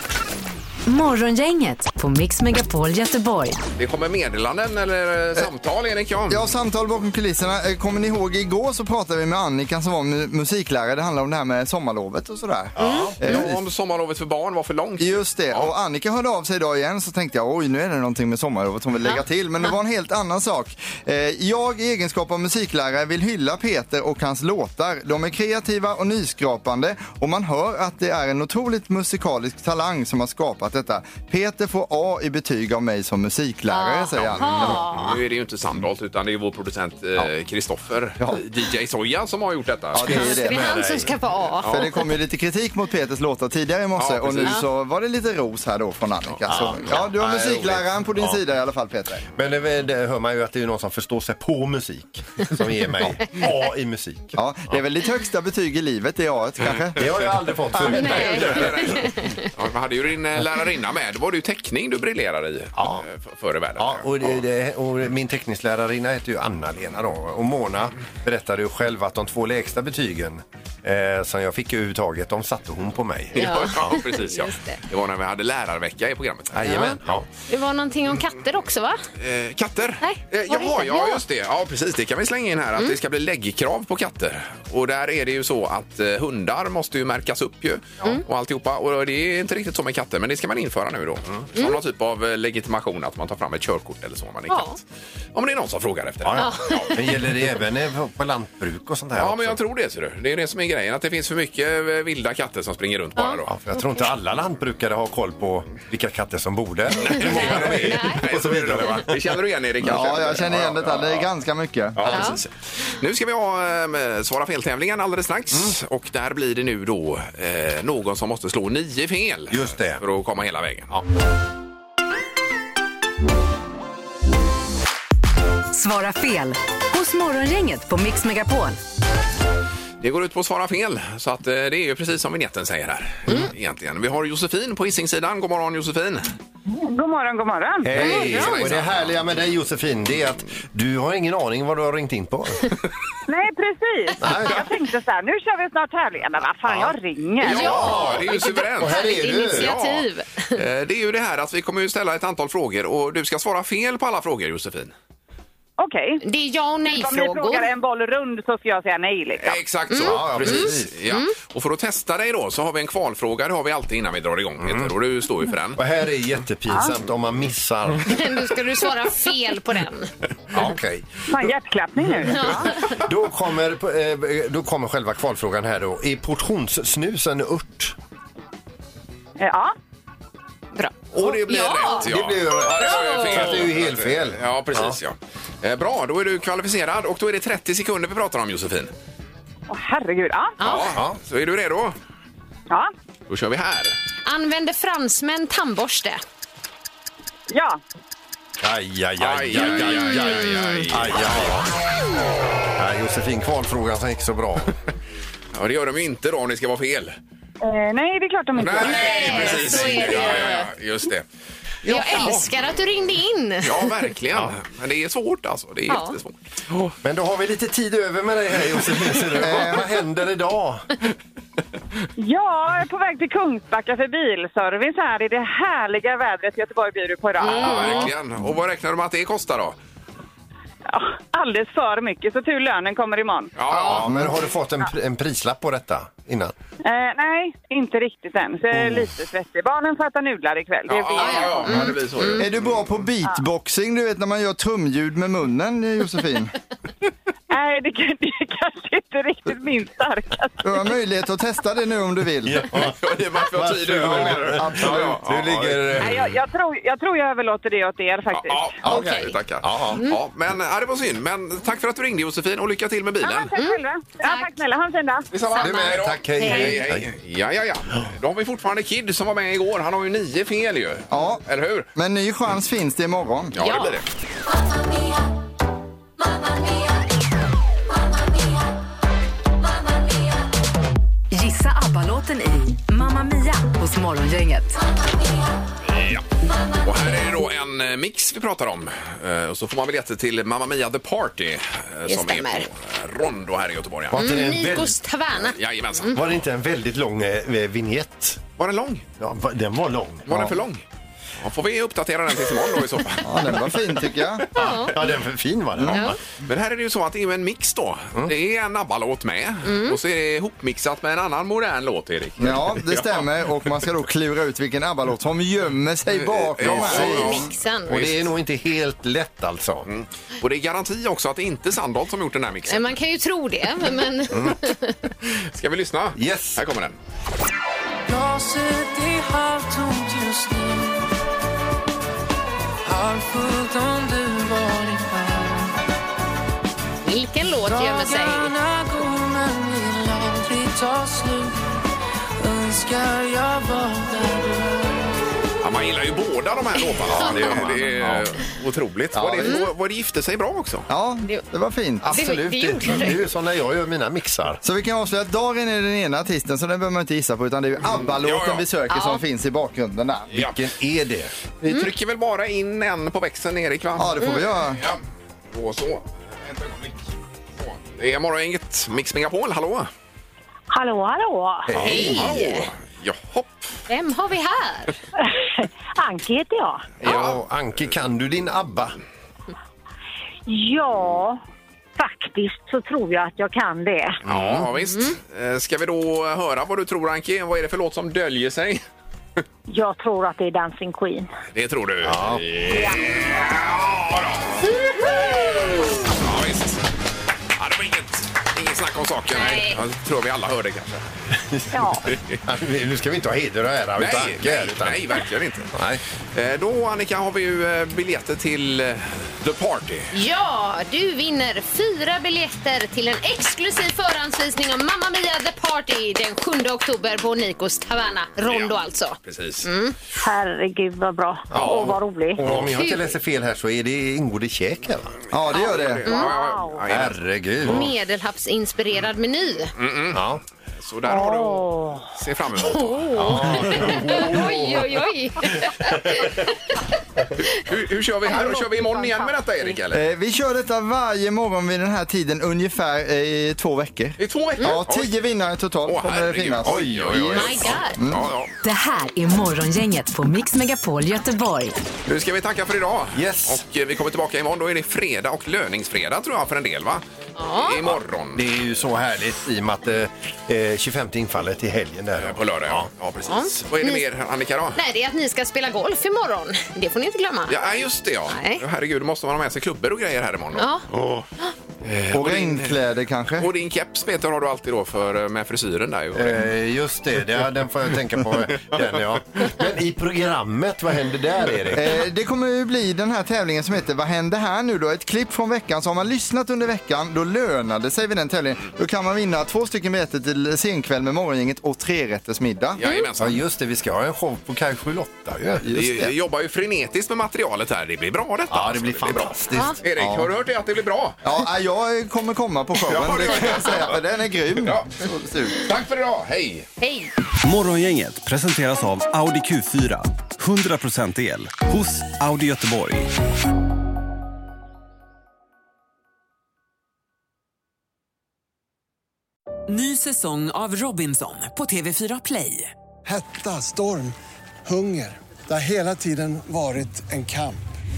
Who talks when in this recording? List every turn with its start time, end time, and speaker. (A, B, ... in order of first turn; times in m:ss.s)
0:00.8-0:03.6 A
0:03.8-0:06.4 B
0:06.3-0:13.6 C
0:12.8-0:13.5 D
0:12.8-0:13.1 E
0:13.2-0:15.7 B
0:15.0-0:35.2 C
0:33.7-0:35.0 E
0:34.2-0:40.2 B
0:39.9-0:40.8 C
0:40.0-0:41.2 D
0:40.1-0:42.0 E
0:41.6-0:41.9 B
0:41.6-0:49.2 C
0:44.0-0:44.6 B
0:46.4-0:47.8 B
0:46.5-0:48.4 D
0:49.3-0:54.4 D
0:54.4-0:57.1 C
0:57.0-0:58.8 D
0:57.8-1:04.4 B
0:57.8-0:59.4 E
1:02.8-1:03.0 D
1:03.8-1:14.0 D
1:13.3-1:16.9 B
1:13.4-1:14.8 E
1:16.5-1:17.3 D
1:16.7-1:17.0 E
1:17.5-1:19.0 E
1:19.2-1:34.8 B
1:20.0-1:21.2 E
1:34.5-1:34.8 E
1:35.3-1:37.0 B
1:36.2-1:39.6 D
1:36.4-1:36.9 E
1:39.1-1:43.5 B
1:43.5-1:49.4 D
1:47.0-1:51.3 B
1:47.1-1:48.2 E
1:49.8-1:52.4 C
1:52.0-2:00.9 B
1:52.0-1:52.4 D
1:52.1-1:52.4 E
1:59.5-2:00.0 D
2:05.7-2:08.8 A
2:10.0-2:16.3 B
2:16.7-2:18.6 F
2:17.8-2:22.8 D
2:18.0-2:18.8 E
2:18.2-2:19.1 B
2:23.3-2:27.7 F
2:24.2-2:24.6 D
2:27.4-2:34.9 B
2:27.4-2:30.6 E
2:27.5-2:29.7 D
2:35.8-2:36.2 F
2:36.2-2:37.7 E
2:36.9-2:39.6 F
2:39.4-2:45.8 B
2:39.9-2:41.3 E
2:39.9-2:40.9 D
2:44.6-2:44.9 D
2:45.7-2:48.2 D
2:48.0-2:50.1 E
2:50.5-2:51.5 D
2:51.3-2:52.8 F
2:52.8-2:58.0 D
2:59.4-2:59.7 F
3:00.7-3:02.1 E
3:01.1-3:05.0 D
3:01.2-3:08.9 B
3:02.8-3:03.6 E
3:09.7-3:10.6 F
3:10.6-3:10.9 E
3:10.6-3:12.0 B
3:10.9-3:11.2 D
3:13.3-3:14.0 B
3:14.2-3:16.2 E
3:17.5-3:17.8 F
3:18.6-3:21.7 D
3:19.2-3:21.4 B
3:19.9-3:20.9 E
3:22.7-3:24.8 D
3:25.5-3:27.2 B
3:27.6-3:29.7 F
3:28.6-3:31.2 B
3:28.6-3:30.7 E
3:31.8-3:32.5 B
3:31.8-3:33.9 E
3:33.6-3:36.9 B
3:35.9-3:36.2 E
3:37.0-3:40.9 D
3:39.4-3:39.8 C
3:42.2-3:48.1 F
3:47.4-3:48.1 E
3:47.4-3:49.8 B
3:50.9-3:53.6 F
3:53.6-3:54.1 B
3:53.7-3:56.5 D
3:53.8-3:54.3 C
3:56.8-4:01.9 F
3:58.7-3:59.1 D
4:00.9-4:02.8 B
4:01.2-4:02.4 E
4:02.3-4:06.5 C
4:07.5-4:10.5 F
4:10.6-4:12.7 C
4:12.4-4:16.3 D
4:12.7-4:16.0 B
4:14.0-4:15.2 C
4:16.0-4:18.7 F
4:18.3-4:23.5 B
4:18.8-4:20.0 D
4:18.8-4:19.3 E
4:23.2-4:25.3 F
4:23.5-4:24.5 E
4:25.3-4:31.9 B
4:25.4-4:26.8 E
4:25.6-4:27.1 D
4:31.1-4:31.4 C
4:31.9-4:33.5 C
4:33.5-4:34.0 B
4:33.6-4:34.0 E
4:41.3-4:44.8 A
4:45.9-4:46.2 B
4:46.8-4:54.2 B
4:52.1-4:52.7 E
4:54.1-4:55.0 D
4:54.1-4:56.2 E
4:55.5-4:56.4 B
4:56.1-4:58.4 D
4:58.6-4:59.0 B
4:59.2-5:00.6 D
5:00.3-5:00.8 B
5:01.4-5:03.6 B
5:03.2-5:04.8 C
5:04.5-5:05.0 E
5:04.6-5:06.2 D
5:05.8-5:06.1 C
5:05.9-5:06.2 E
5:06.4-5:13.3 B
5:09.6-5:10.0 E
5:12.4-5:17.5 C
5:16.1-5:17.5 B
5:16.6-5:18.2 E
5:16.8-5:17.3 D
5:17.9-5:19.9 D
5:19.9-5:23.0 B
5:22.7-5:25.1 E
5:25.3-5:27.0 B
5:26.2-5:26.6 D
5:28.1-5:31.1 G
5:32.8-5:35.7 G
5:37.0-5:38.5 E
5:37.6-5:41.6 G
5:42.4-5:45.1 G
5:45.6-5:50.9 B
5:47.0-5:48.3 D
5:49.1-5:49.6 C
5:50.9-5:52.2 C
5:52.0-5:54.6 D
5:52.0-5:53.3 E
5:54.6-6:00.3 C
5:58.0-5:58.6 B
5:58.9-5:59.2 E
6:00.3-6:01.3 D
6:01.6-6:05.0 B
6:04.0-6:04.8 C
6:05.5-6:07.0 B
6:07.6-6:09.9 B
6:10.7-6:11.7 H
6:11.7-6:12.4 D
6:11.8-6:12.7 E
6:11.8-6:13.7 B
6:13.9-6:15.0 E
6:15.3-6:16.9 H
6:17.0-6:19.0 D
6:17.0-6:17.4 B
6:20.5-6:21.4 H
6:22.0-6:24.2 H
6:24.2-6:24.7 D
6:24.2-6:28.8 B
6:24.9-6:25.2 E
6:29.7-6:31.3 H
6:31.5-6:34.6 B
6:32.0-6:32.9 D
6:32.7-6:33.0 H
6:36.1-6:36.8 B
6:37.6-6:41.0 B
6:39.3-6:39.8 E
6:41.5-6:46.0 D
6:41.7-6:42.0 H
6:42.1-6:42.4 B
6:44.0-6:45.7 B
6:46.3-6:50.1 B
6:50.1-6:59.9 E
6:58.4-6:59.6 B
7:00.2-7:02.4 H
7:01.5-7:05.2 D
7:01.5-7:02.6 B
7:02.7-7:03.0 E
7:05.3-7:06.1 C
7:05.4-7:07.9 B
7:05.5-7:06.3 E
7:06.3-7:06.8 H
7:06.9-7:07.9 D
7:07.6-7:09.7 E
7:09.8-7:10.2 B
7:10.1-7:10.4 D
7:10.8-7:13.8 B
7:11.0-7:12.0 H
7:12.7-7:16.8 E
7:13.1-7:15.0 D
7:17.5-7:20.0 B
7:19.9-7:28.3 C
7:24.2-7:25.1 B
7:25.8-7:28.5 B
7:26.6-7:27.6 D
7:27.4-7:28.0 E
7:28.6-7:31.8 A
7:32.0-7:37.0 B
7:33.1-7:33.6 D
7:37.4-7:37.8 E
7:37.5-7:38.4 B
7:38.3-7:42.9 D
7:42.2-7:44.8 B
7:43.3-7:44.0 E
7:44.7-7:47.6 E
7:47.5-7:51.3 B
7:48.3-7:48.6 E
7:50.6-7:50.8 E
7:51.8-7:52.8 B
7:52.1-7:53.5 C
7:53.4-7:56.5 B
7:56.1-8:02.0 D
8:01.7-8:12.8 C
8:12.8-8:13.4 B
8:12.8-8:13.1 E
8:13.2-8:15.8 D
8:15.6-8:16.1 C
8:15.7-8:21.2 B
8:18.5-8:20.2 D
8:21.2-8:25.6 C
8:22.8-8:24.0 B
8:24.6-8:24.9 B
8:25.6-8:26.7 B
8:26.8-8:27.1 E
8:27.4-8:33.1 I
8:39.7-8:42.7 J
8:43.0-8:47.6 K